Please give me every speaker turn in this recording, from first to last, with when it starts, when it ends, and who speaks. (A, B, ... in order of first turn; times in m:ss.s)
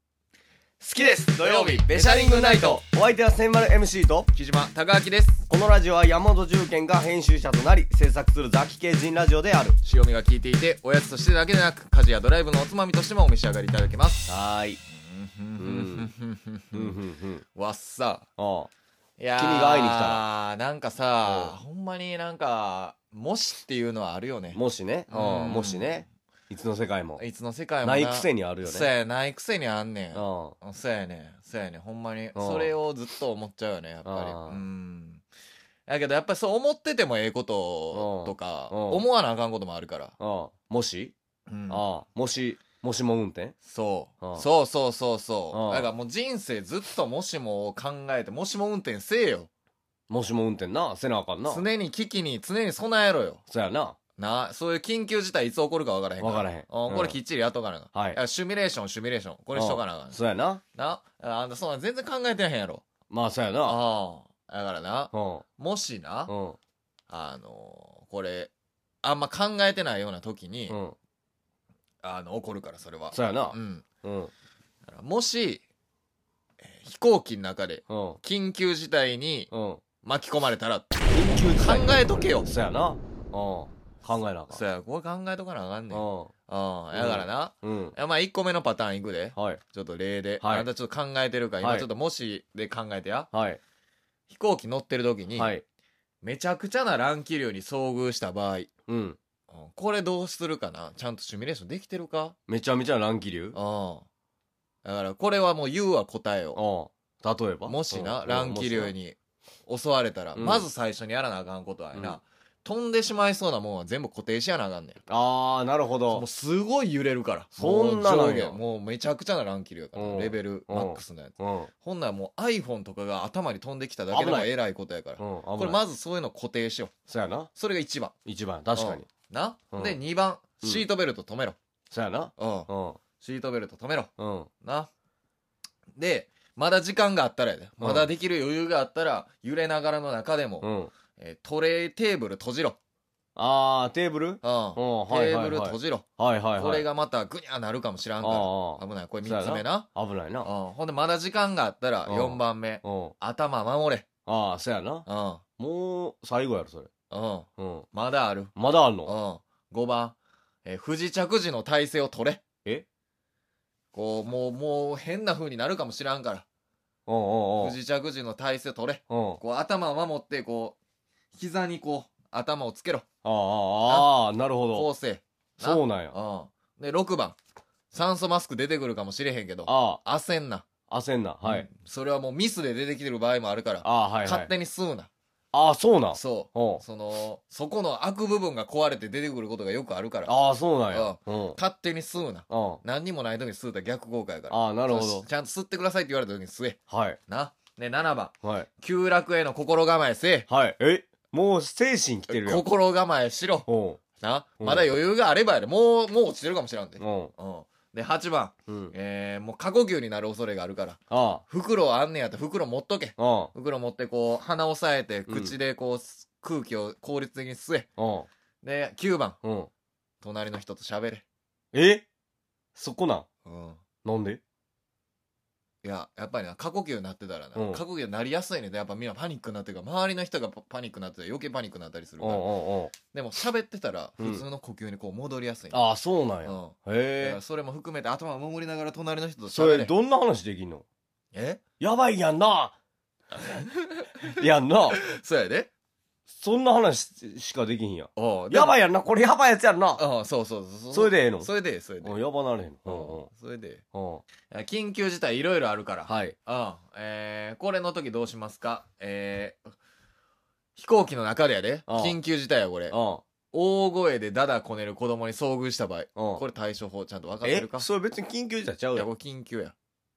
0:00.8-0:04.3 A
0:01.0-0:02.8 B
0:04.3-0:05.5 B
0:05.5-0:09.8 A
0:09.8-0:14.3 B
0:14.3-0:14.8 A
0:14.9-0:17.0 B
0:15.6-0:16.1 A
0:16.7-0:17.4 A
0:17.5-0:18.3 B
0:18.4-0:18.7 A
0:19.2-0:26.0 B
0:19.4-0:20.2 A
0:21.2-0:21.5 A
0:24.5-0:27.2 A
0:27.2-0:35.2 B
0:27.8-0:28.9 A
0:30.1-0:30.6 A
0:32.3-0:32.7 A
0:34.0-0:34.6 A
0:35.9-0:40.2 B
0:37.9-0:39.0 A
0:40.2-0:41.1 A
0:41.5-0:41.8 B
0:41.7-0:43.6 A
0:43.6-0:49.5 B
0:45.5-0:45.9 A
0:50.1-0:51.6 A
0:51.5-0:53.4 B
0:53.5-0:54.0 A
0:54.2-1:00.2 B
0:56.2-0:57.2 A
0:57.9-0:58.2 A
0:59.5-1:00.6 A
1:00.7-1:02.8 B
1:03.1-1:03.8 A
1:03.6-1:06.3 B
1:05.1-1:05.4 A
1:06.3-1:06.6 A
1:07.1-1:08.5 B
1:09.0-1:10.8 B
1:10.7-1:11.0 A
1:12.0-1:13.8 B
1:13.1-1:14.3 A
1:14.9-1:15.6 B
1:16.6-1:19.5 B
1:17.9-1:18.2 A
1:19.5-1:19.8 A
1:20.0-1:22.5 B
1:21.1-1:24.6 A
1:24.5-1:33.3 B
1:25.9-1:26.3 A
1:26.9-1:27.9 A
1:29.3-1:29.6 A
1:30.4-1:30.7 A
1:31.6-1:31.9 A
1:33.3-1:33.6 A
1:34.3-1:35.5 B
1:35.3-1:35.6 A
1:36.2-1:38.7 B
1:38.9-1:39.2 A
1:39.5-1:42.4 B
1:42.5-1:43.6 A
1:43.5-1:44.0 B
1:44.8-1:46.6 B
1:46.5-1:48.9 A
1:47.6-1:55.0 B
1:50.4-1:50.6 A
1:55.1-1:56.2 A
1:56.1-2:06.9 B
1:57.6-1:58.6 A
1:59.9-2:01.7 A
2:04.1-2:04.5 A
2:05.2-2:05.8 A
2:07.1-2:07.5 A
2:07.5-2:08.1 B
2:08.2-2:09.0 A
2:08.7-2:11.6 B
2:11.9-2:13.0 A
2:12.4-2:14.1 B
2:14.2-2:14.5 A
2:14.6-2:14.9 B
2:16.0-2:22.8 B
2:17.8-2:18.1 A
2:20.6-2:20.9 A
2:23.4-2:26.9 A
2:24.4-2:29.9 B
2:28.2-2:30.5 A
2:30.4-2:34.1 B
2:32.0-2:33.1 A
2:34.2-2:35.1 A
2:35.0-2:35.4 B
2:35.6-2:36.9 A
2:37.1-2:38.5 B
2:37.6-2:37.9 A
2:38.5-2:39.1 A
2:39.0-2:42.4 B
2:43.9-2:46.4 B
2:47.1-2:47.8 A
2:47.6-2:50.8 B
2:49.1-2:49.4 A
2:51.3-2:53.0 B
2:53.2-2:54.9 A
2:53.8-2:54.1 B
2:54.7-2:57.4 B
2:55.6-2:56.1 A
2:57.9-3:00.6 B
2:59.6-3:00.0 A
3:00.9-3:01.7 A
3:01.4-3:05.1 B
3:03.8-3:04.5 A
3:05.5-3:06.8 A
3:06.1-3:10.3 B
3:10.2-3:11.6 A
3:10.9-3:20.5 B
3:12.5-3:12.8 A
3:14.5-3:15.2 A
3:16.9-3:17.2 A
3:18.4-3:18.7 A
3:20.5-3:22.6 A
3:22.3-3:37.9 B
3:23.7-3:24.0 A
3:24.6-3:24.9 A
3:27.0-3:27.3 A
3:28.7-3:28.9 A
3:31.1-3:31.4 A
3:33.2-3:33.5 A
3:35.3-3:35.5 A
3:38.0-3:38.3 A
3:38.6-3:39.4 B
3:39.4-3:39.7 A
3:40.2-3:41.2 B
3:41.7-3:42.0 A
3:42.8-3:43.2 A
3:43.4-3:43.8 B
3:44.0-3:44.4 A
3:45.8-3:52.5 B
3:47.6-3:47.8 A
3:52.2-3:52.9 A
3:53.0-3:55.8 B
3:54.2-3:54.4 A
3:55.7-3:57.4 A
3:56.4-3:59.9 B
3:59.5-4:00.8 A
4:01.3-4:01.6 B
4:01.8-4:02.7 A
4:03.6-4:04.2 B
4:04.3-4:05.0 A
4:05.0-4:05.7 B
4:06.3-4:10.0 A
4:08.2-4:08.7 B
4:10.0-4:12.2 B
4:10.9-4:11.5 A
4:12.0-4:13.3 A
4:12.8-4:13.8 B
4:13.9-4:14.2 A
4:14.5-4:19.7 B
4:16.0-4:16.3 A
4:20.8-4:23.0 B
4:21.9-4:22.2 A
4:22.9-4:23.2 A
4:23.5-4:27.9 B
4:26.2-4:26.4 A
4:27.4-4:29.1 A
4:28.9-4:29.7 B